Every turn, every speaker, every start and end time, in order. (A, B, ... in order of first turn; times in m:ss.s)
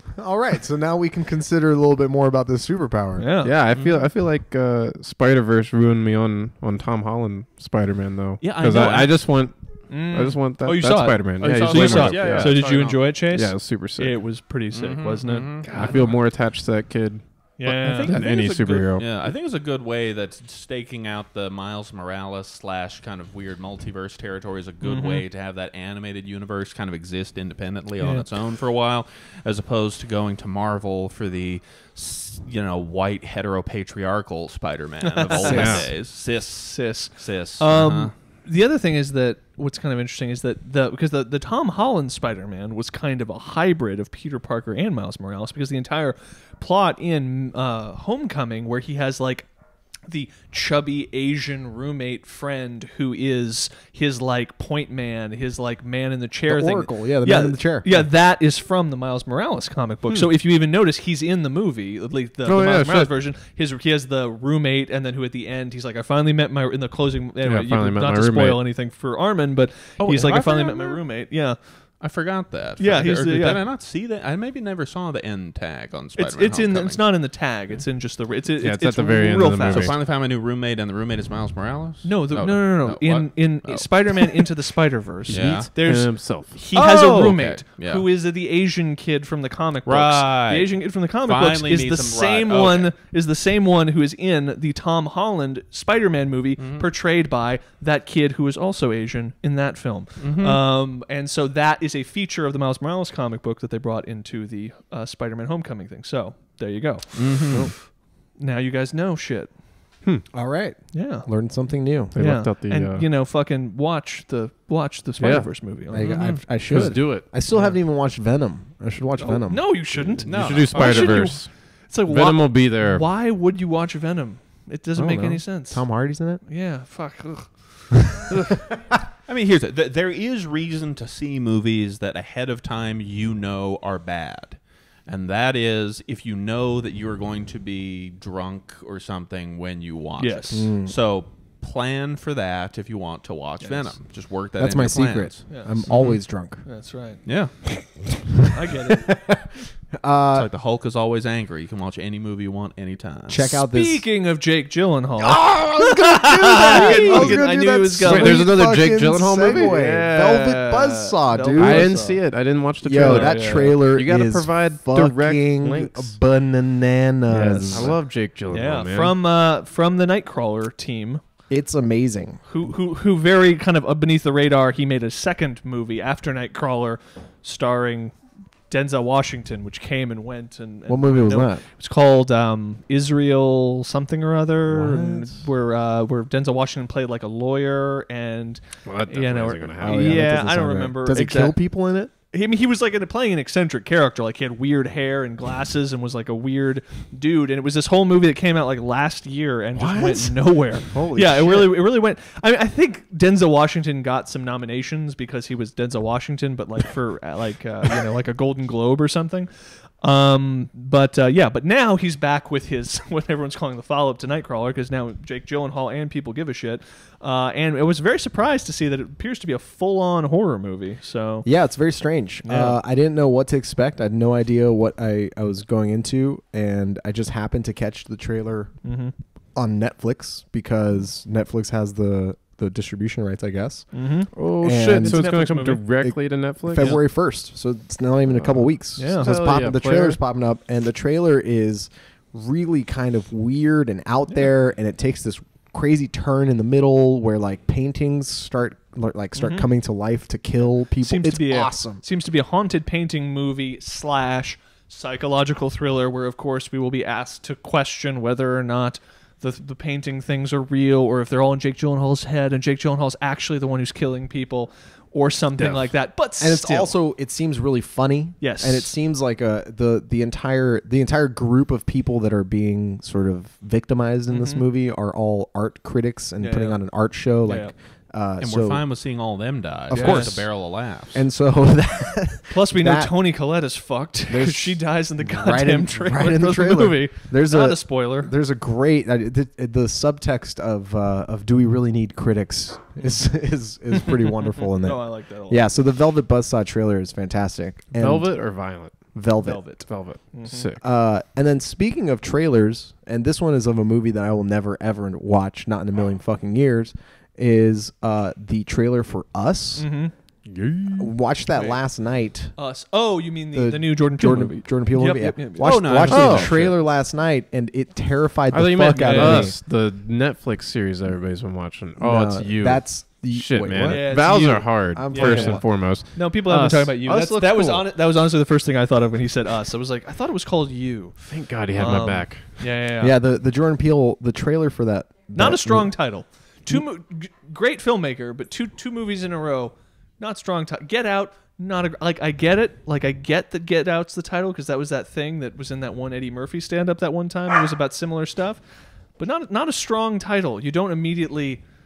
0:00.1-0:03.3 A
0:03.2-0:03.5 B
0:03.4-0:14.2 C
0:03.7-0:04.0 D
0:08.4-0:09.2 D
0:08.8-0:09.3 B
0:09.9-0:16.1 B
0:11.4-0:13.1 D
0:14.7-0:16.2 D
0:15.7-0:19.1 C
0:17.6-0:18.2 B
0:17.7-0:38.1 D
0:24.8-0:25.2 B
0:28.0-0:28.3 B
0:35.0-0:49.5 B
0:35.4-0:35.9 C
0:50.1-1:12.1 B
0:56.5-0:58.1 A
1:02.4-1:03.1 C
1:07.4-1:08.6 C
1:10.0-1:11.1 D
1:12.0-1:17.8 D
1:12.8-1:13.6 B
1:16.2-1:19.9 B
1:18.6-1:19.9 C
1:19.6-1:24.5 D
1:22.0-1:49.6 B
1:25.3-1:26.1 D
1:25.3-1:26.6 C
1:26.7-1:28.1 D
1:29.9-1:32.9 D
1:36.6-1:36.9 D
1:40.2-1:40.6 D
1:47.2-1:47.8 D
1:50.3-1:52.2 A
1:50.9-1:56.1 B
1:52.1-1:53.1 C
1:55.2-1:57.3 C
1:55.9-2:00.2 A
1:56.0-1:56.4 D
1:57.5-1:57.8 B
1:59.2-2:08.4 B
2:00.2-2:03.1 C
2:00.2-2:01.4 D
2:05.0-2:06.4 A
2:09.3-2:26.2 D
2:20.2-2:20.7 B
2:20.5-2:21.0 A
2:23.6-2:23.9 B
2:24.6-2:26.7 A
2:25.5-2:27.2 B
2:27.2-2:27.8 D
2:28.5-2:29.2 B
2:29.1-2:30.5 A
2:30.3-2:33.5 D
2:33.3-2:34.1 A
2:33.4-2:38.5 B
2:35.2-2:42.2 A
2:36.7-2:37.5 D
2:38.0-2:39.9 C
2:39.5-2:43.8 B
2:41.6-2:46.2 C
2:42.8-2:48.0 A
2:47.3-2:49.2 C
2:48.5-2:51.2 B
2:51.5-2:52.4 A
2:52.4-2:58.2 B
2:58.7-3:11.6 B
3:00.9-3:01.6 A
3:04.7-3:05.5 A
3:08.8-3:10.3 C
3:09.8-3:12.1 A
3:12.3-3:41.5 B
3:19.7-3:21.8 A
3:41.4-3:48.9 A
3:42.4-3:42.8 B
3:48.8-3:49.1 B
3:49.6-4:12.0 A
3:53.9-3:55.8 B
3:54.3-3:57.0 C
3:58.3-4:00.2 C
3:59.0-3:59.3 B
4:09.4-4:09.7 B
4:11.0-4:27.0 B
4:25.6-4:25.9 C
4:26.4-4:39.1 A
4:28.4-4:28.9 B
4:34.3-4:34.6 B
4:36.4-4:37.7 B
4:38.4-4:41.2 D
4:39.9-4:43.2 A
4:39.9-4:40.4 B
4:42.5-4:48.3 B
4:44.3-4:59.9 A
4:53.0-4:53.6 B
4:54.8-4:55.7 B
4:58.0-5:00.8 C
4:59.4-5:00.7 B
5:00.8-5:09.9 A
5:09.8-5:10.1 B
5:10.4-5:11.1 C
5:11.0-5:12.6 A
5:11.5-5:11.8 B
5:12.6-5:16.1 B
5:13.5-5:19.6 A
5:15.6-5:16.8 D
5:16.1-5:16.5 C
5:18.5-5:27.0 C
5:18.9-5:19.5 B
5:22.0-5:25.7 A
5:23.8-5:33.2 B
5:27.0-5:27.9 A
5:31.2-5:32.7 C
5:33.0-5:36.8 A
5:35.3-5:51.7 B